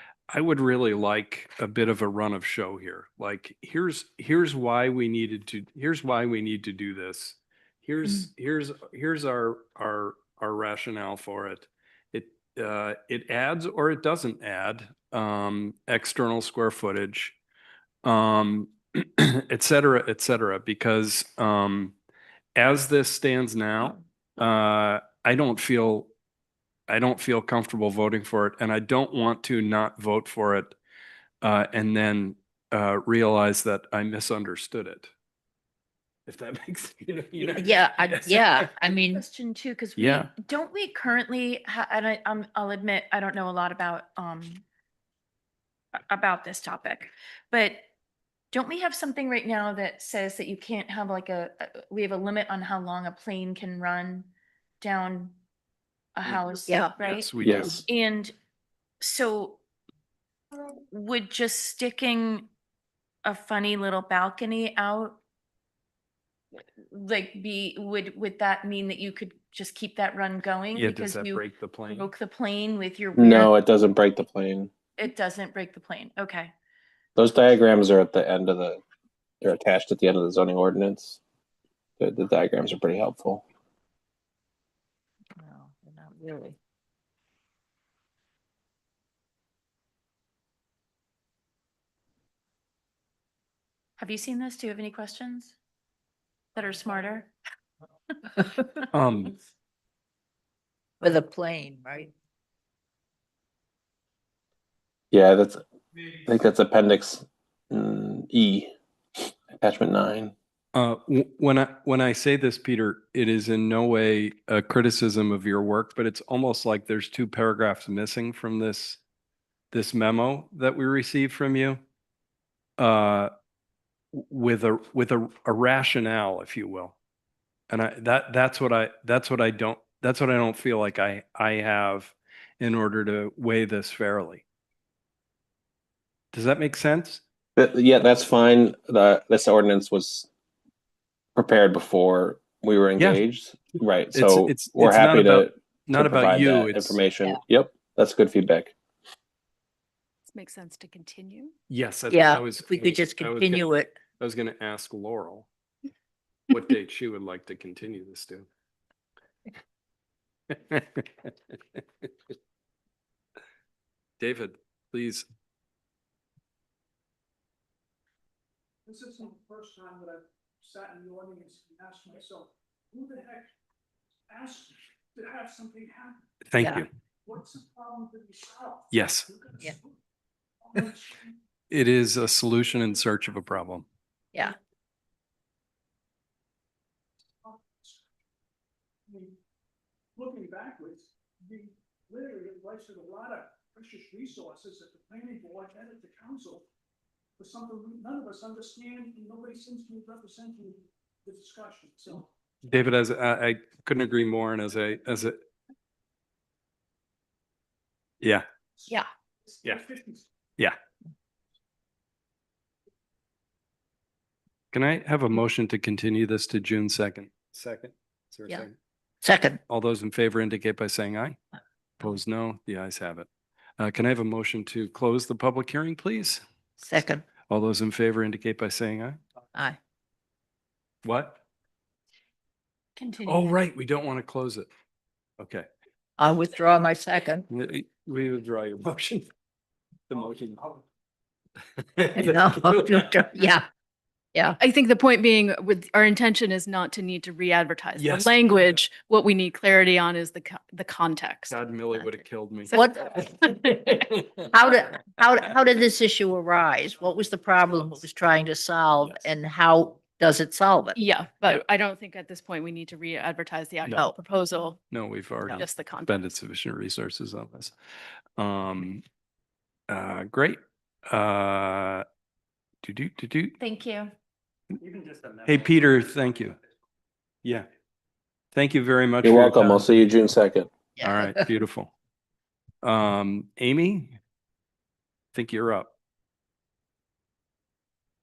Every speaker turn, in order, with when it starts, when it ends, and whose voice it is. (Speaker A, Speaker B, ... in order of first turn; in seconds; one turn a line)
Speaker A: 0.3-17.4
Speaker A: 18.0-22.0
Speaker A: 22.6-26.1
Speaker A: 26.9-30.8
Speaker A: 31.4-35.1
Speaker A: 36.3-38.7
Speaker B: 37.6-39.2
Speaker C: 38.8-44.6
Speaker A: 40.0-40.3
Speaker C: 46.0-47.9
Speaker C: 48.5-55.4
Speaker C: 56.2-58.4
Speaker B: 56.7-56.9
Speaker A: 57.0-57.8
Speaker D: 57.4-57.8
Speaker C: 59.0-59.6
Speaker C: 60.9-62.5
Speaker C: 63.2-65.2
Speaker C: 66.9-73.5
Speaker A: 70.8-72.1
Speaker D: 73.2-74.7
Speaker C: 75.0-76.5
Speaker D: 77.2-78.8
Speaker D: 79.4-81.2
Speaker D: 82.0-83.4
Speaker B: 85.4-86.6
Speaker C: 94.0-95.6
Speaker C: 96.5-97.3
Speaker A: 98.9-99.3
Speaker B: 101.0-102.1
Speaker D: 105.1-105.6
Speaker D: 106.2-110.3
Speaker A: 110.7-119.0
Speaker A: 119.7-121.8
Speaker A: 122.8-123.3
Speaker A: 124.1-127.0
Speaker A: 127.7-134.4
Speaker A: 136.3-137.2
Speaker D: 137.6-140.3
Speaker D: 141.4-148.7
Speaker A: 144.1-147.0
Speaker E: 150.3-151.5
Speaker A: 151.7-153.7
Speaker B: 152.1-153.9
Speaker A: 154.2-155.5
Speaker A: 156.5-158.5
Speaker A: 160.5-162.1
Speaker A: 164.2-165.3
Speaker F: 168.9-173.5
Speaker F: 174.3-176.2
Speaker A: 176.5-176.9
Speaker F: 177.3-179.6
Speaker A: 178.9-179.3
Speaker F: 180.7-181.3
Speaker A: 181.7-183.9
Speaker F: 187.4-188.0
Speaker F: 189.1-189.3
Speaker F: 190.2-196.6
Speaker F: 197.4-202.3
Speaker A: 202.7-205.4
Speaker F: 209.5-210.3
Speaker A: 214.7-218.8
Speaker B: 219.2-219.6
Speaker A: 219.7-221.4
Speaker A: 222.0-223.3
Speaker A: 223.8-226.4
Speaker B: 226.8-227.2
Speaker A: 227.5-229.2
Speaker A: 231.0-231.4
Speaker C: 233.0-233.6
Speaker A: 233.3-234.7
Speaker A: 235.4-235.7
Speaker B: 236.2-237.5
Speaker A: 237.5-239.3
Speaker A: 240.1-240.8
Speaker A: 241.8-243.1
Speaker B: 242.2-243.7
Speaker E: 244.6-252.9
Speaker A: 248.0-248.8
Speaker A: 251.5-254.4
Speaker B: 252.7-253.2
Speaker B: 254.5-261.0
Speaker E: 260.9-264.8
Speaker A: 264.9-267.7
Speaker E: 265.5-266.2
Speaker A: 268.4-269.0
Speaker A: 269.9-272.1
Speaker A: 272.8-273.6
Speaker C: 273.6-274.1
Speaker A: 275.4-276.6
Speaker A: 278.5-279.9
Speaker D: 279.2-280.7
Speaker B: 281.0-281.5
Speaker A: 281.0-281.9
Speaker A: 282.8-284.2
Speaker A: 285.3-285.9